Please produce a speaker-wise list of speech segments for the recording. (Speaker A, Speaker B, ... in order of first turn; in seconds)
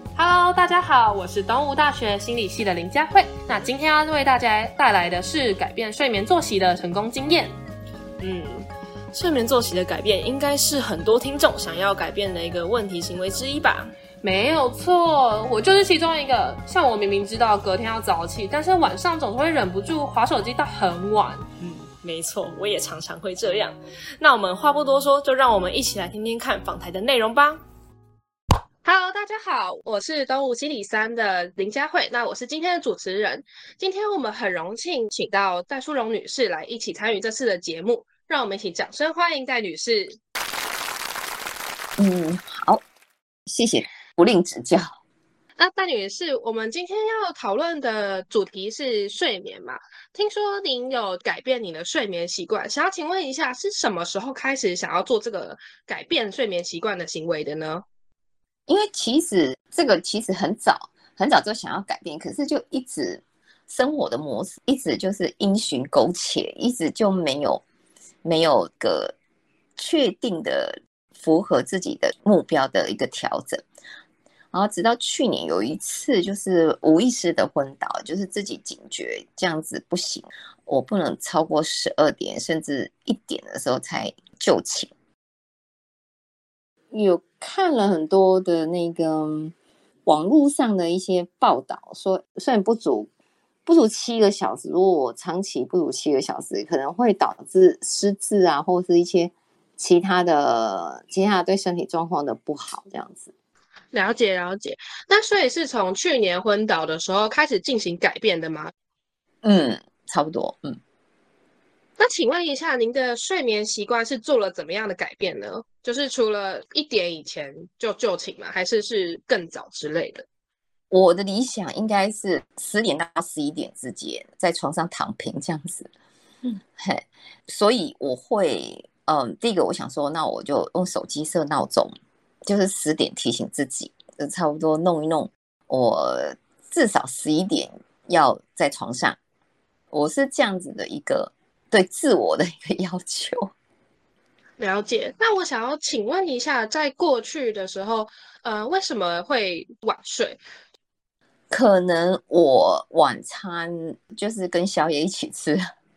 Speaker A: 0.1-7.5, 14.2-21.4, 28.8-40.2, 45.6-57.8, 103.9-108.7, 112.0-120.2, 144.6-150.4
Speaker B: 8.2-13.9, 21.6-27.6
Speaker C: 42.0-42.8, 43.5-44.8, 58.7-67.6, 68.2-69.1, 69.8-73.6, 74.5-84.9, 86.9-89.5, 90.0-93.1, 93.7-103.3, 109.4-110.8, 120.9-125.9, 126.8-131.9, 132.4-139.2, 139.9-143.5, 151.5-155.6